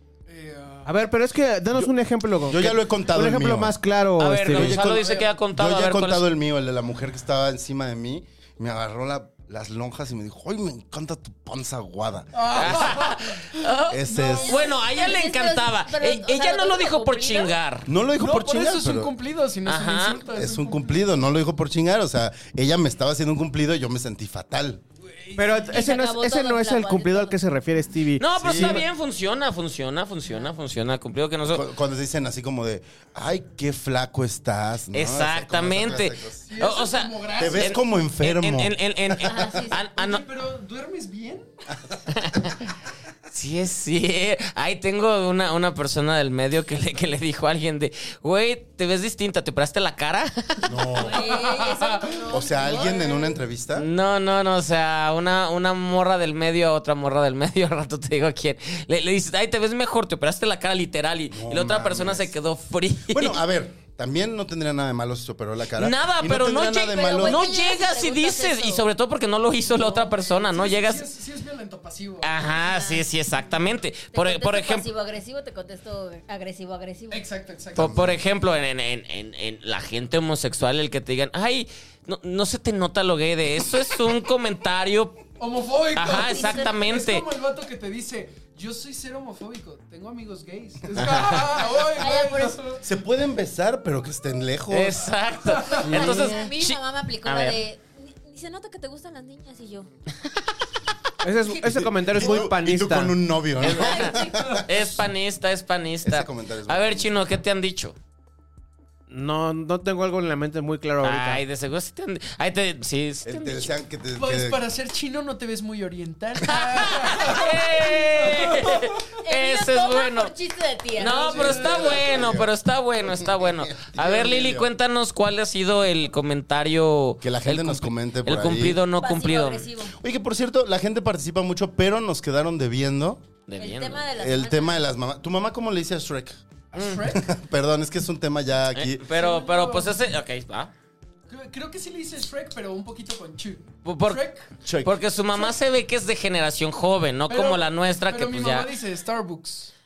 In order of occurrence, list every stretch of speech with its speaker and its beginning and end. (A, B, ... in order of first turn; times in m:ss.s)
0:00.3-0:00.9 A
0:00.8-0:04.8 B
0:02.5-0:03.8 C
0:04.2-0:06.3 D
0:04.5-0:13.0 C
0:04.7-0:05.3 A
0:12.3-0:14.3 A
0:12.5-0:17.9 D
0:13.9-0:14.7 C
0:14.3-0:17.5 E
0:17.8-0:19.1 C
0:18.2-0:21.1 A
0:19.6-0:20.2 D
0:20.3-0:24.8 C
0:25.0-0:25.7 A
0:25.4-0:28.7 B
0:25.7-0:27.4 E
0:28.2-0:31.6 D
0:28.3-0:28.9 C
0:31.5-0:36.4 C
0:34.9-0:40.2 D
0:36.5-0:37.7 A
0:37.4-0:39.5 C
0:39.2-0:39.8 E
0:40.0-0:41.4 A
0:42.1-0:42.7 D
0:43.3-0:50.7 D
0:50.6-0:51.3 C
0:51.0-0:52.1 A
0:51.0-0:53.2 E
0:52.3-0:53.9 C
0:52.8-0:53.1 A
0:53.7-1:03.4 D
1:01.3-1:02.3 C
1:03.1-1:07.4 C
1:05.8-1:11.1 D
1:06.9-1:08.8 E
1:09.7-1:12.3 A
1:12.2-1:14.8 D
1:12.4-1:13.1 E
1:14.1-1:17.2 E
1:17.1-1:18.2 A
1:17.8-1:25.2 D
1:17.8-1:18.1 C
1:25.4-1:32.8 A
1:25.9-1:27.3 D
1:26.2-1:26.8 E
1:31.0-1:31.5 D
1:31.6-1:32.6 E
1:32.8-1:35.1 C
1:34.7-1:37.6 D
1:35.4-1:36.2 A
1:35.8-1:39.9 E
1:36.0-1:36.3 B
1:41.2-1:43.2 B
1:41.5-1:45.0 C
1:43.6-1:48.0 D
1:43.6-1:44.6 E
1:46.0-1:47.2 C
1:49.1-1:51.4 B
1:51.0-1:53.7 D
1:53.2-1:54.6 C
1:54.1-1:59.0 A
1:56.4-2:00.3 D
1:59.2-2:01.6 E
2:01.0-2:09.7 D
2:01.0-2:02.3 A
2:01.4-2:04.7 C
2:07.2-2:08.8 C
2:09.0-2:10.0 E
2:10.0-2:13.2 C
2:13.5-2:14.1 D
2:13.6-2:14.8 E
2:14.1-2:16.4 C
2:16.7-2:17.3 A
2:16.7-2:17.0 D
2:17.0-2:19.0 C
2:18.7-2:20.7 D
2:19.1-2:20.0 A
2:21.3-2:24.5 A
2:23.8-2:24.2 D
2:24.6-2:25.0 C
2:24.8-2:28.7 D
2:27.3-2:29.7 A